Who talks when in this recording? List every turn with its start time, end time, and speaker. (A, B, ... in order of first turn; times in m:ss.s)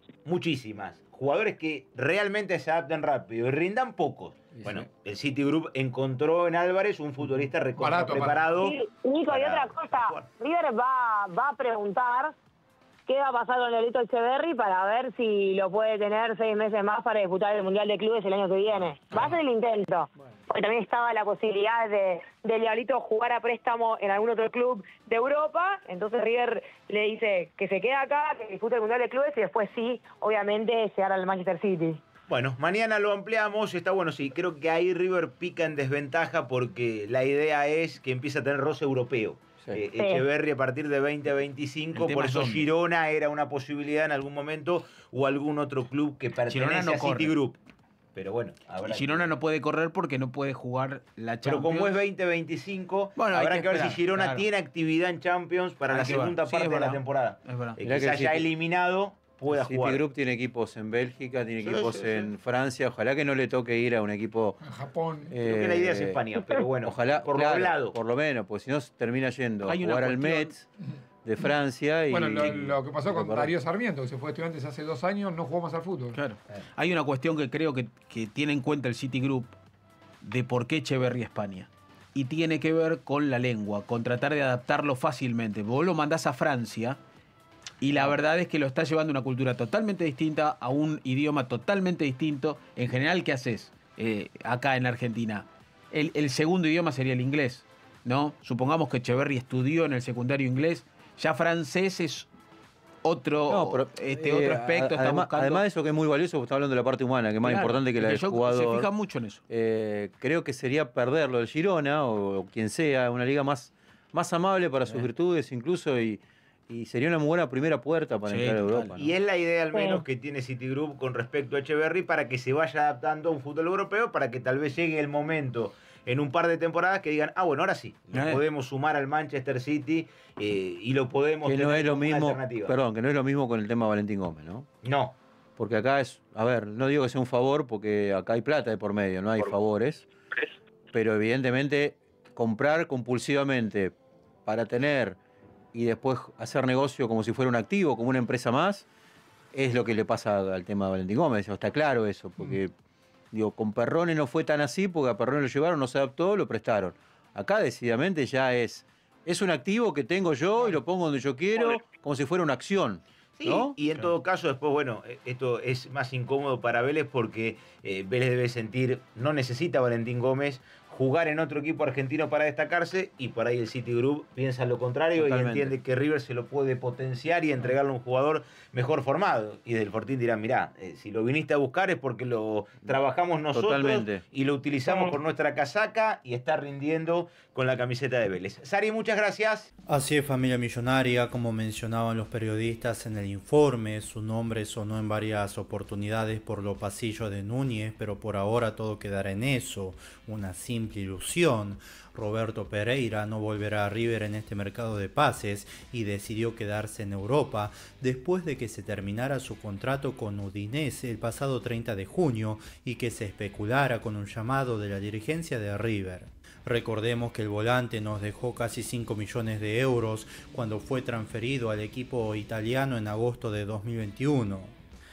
0:00.2-0:08.8 A
0:04.5-0:04.8 B
0:07.8-0:08.5 B
0:08.6-0:12.3 C
0:09.3-0:10.3 A
0:13.1-0:32.0 C
0:32.3-0:47.6 A
0:40.0-0:40.2 C
0:42.0-0:42.7 D
0:46.5-0:47.3 D
0:48.2-0:49.3 A
0:48.8-0:51.9 D
0:51.4-1:00.0 A
0:53.2-0:54.5 D
0:55.9-0:57.8 D
0:57.8-0:58.5 E
0:59.5-1:04.6 E
1:01.6-1:02.3 A
1:04.6-1:05.3 B
1:05.3-1:06.2 E
1:05.4-1:08.0 A
1:06.8-1:10.7 E
1:09.6-1:10.6 D
1:11.2-1:13.5 E
1:12.1-1:16.2 B
1:16.1-1:19.6 D
1:20.2-1:27.0 D
1:27.8-1:42.3 D
1:43.0-1:45.6 D
1:43.5-1:48.9 E
1:47.4-1:49.4 D
1:49.5-1:59.1 E
1:58.3-1:58.9 D
1:59.0-2:12.7 A
1:59.7-2:00.0 C
2:08.1-2:08.4 D
2:11.4-2:14.7 E
2:14.8-2:15.2 A
2:15.6-2:20.1 E
2:20.9-2:23.9 E
2:24.5-2:25.2 E
2:25.7-2:28.9 E
2:29.5-2:32.7 E
2:33.3-2:44.0 E
2:43.4-3:09.7 A
2:55.2-2:55.7 E
3:03.5-3:04.2 E
3:09.9-3:44.8 F